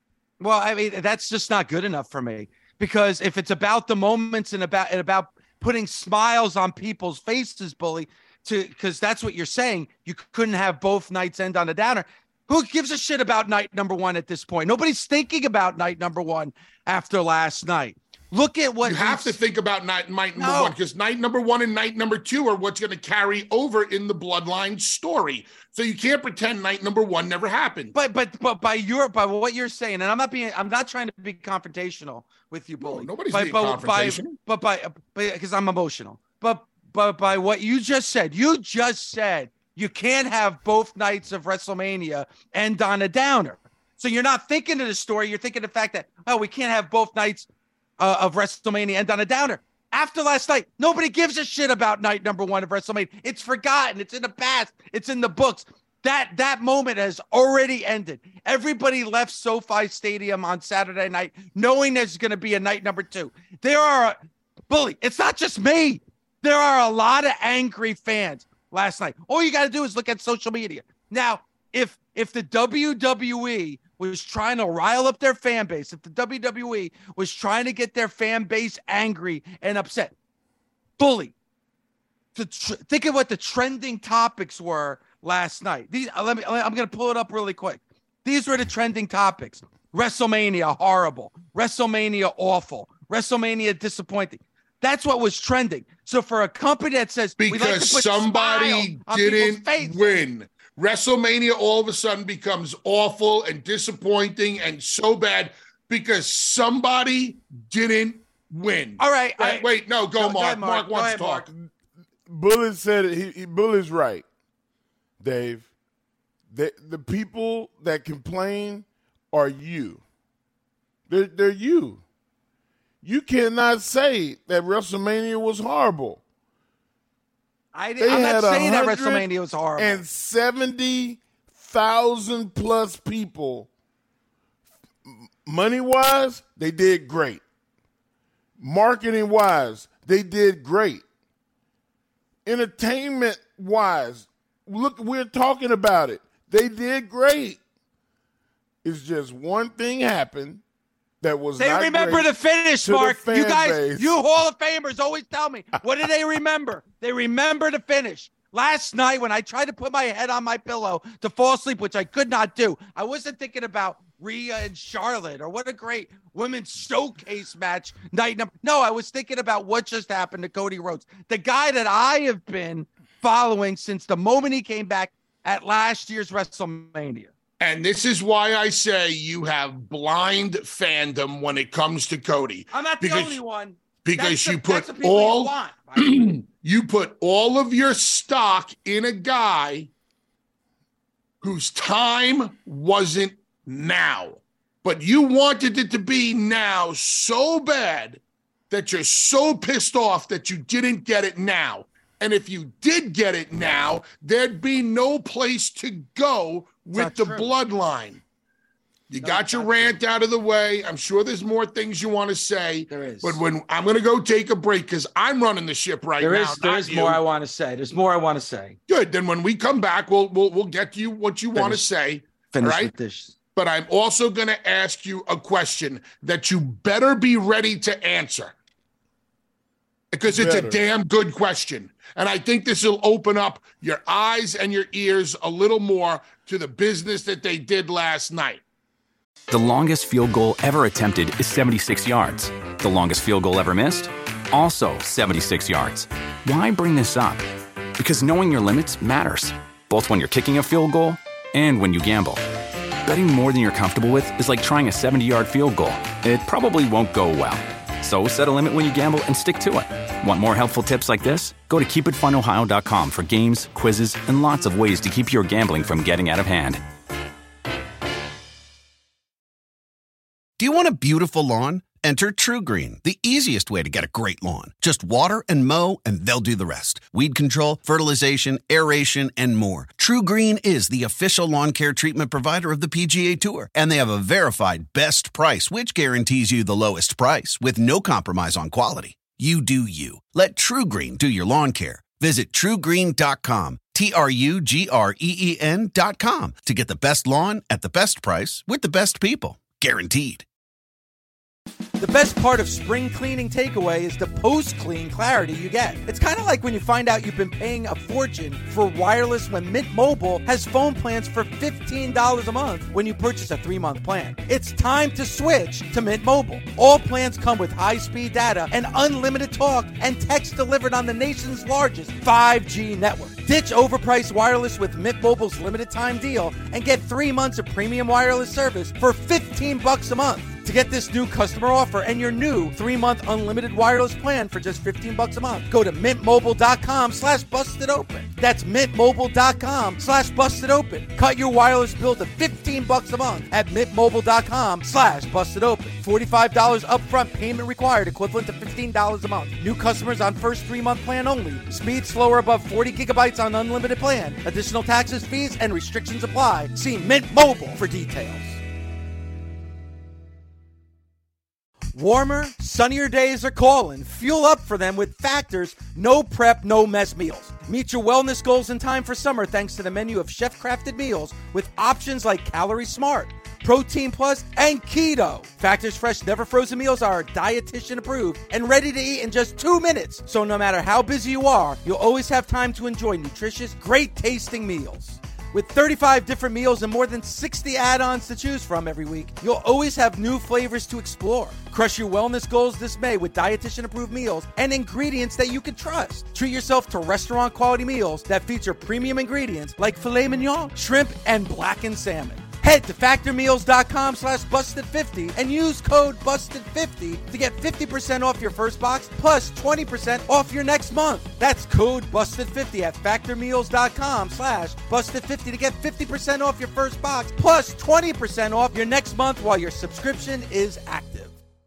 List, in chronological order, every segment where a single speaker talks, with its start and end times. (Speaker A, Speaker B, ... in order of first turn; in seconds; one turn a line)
Speaker A: 0.4-19.3
Speaker B: 18.8-27.9
Speaker A: 20.4-20.7
Speaker A: 27.9-47.5
Speaker B: 32.8-34.4
Speaker A: 48.0-64.2
Speaker A: 64.7-80.1
Speaker A: 81.0-81.3
Speaker A: 82.3-100.2
Speaker B: 97.4-111.5
Speaker A: 109.0-111.5
Speaker C: 112.3-114.2
Speaker C: 115.2-115.7
Speaker C: 116.5-120.0
Speaker C: 121.1-122.0
Speaker C: 123.0-126.2
Speaker A: 127.7-130.0
Speaker C: 128.0-133.7
Speaker C: 135.0-137.4
Speaker C: 138.6-141.0
Speaker C: 142.4-147.6
Speaker C: 148.8-150.6
Speaker C: 151.2-154.2
Speaker A: 151.6-177.3
Speaker B: 177.6-183.4
Speaker A: 182.7-186.3
Speaker B: 184.0-189.9
Speaker B: 191.4-208.2
Speaker A: 206.9-207.5
Speaker B: 209.1-217.2
Speaker A: 209.2-210.0
Speaker A: 212.9-213.4
Speaker A: 216.2-218.8
Speaker B: 218.9-222.9
Speaker A: 221.5-221.8
Speaker A: 222.5-223.3
Speaker B: 223.5-228.5
Speaker B: 230.1-238.6
Speaker C: 230.3-230.8
Speaker D: 239.5-247.4
Speaker D: 248.0-252.4
Speaker D: 253.1-266.8
Speaker E: 270.6-300.4
Speaker A: 302.0-358.6
Speaker A: 361.9-421.4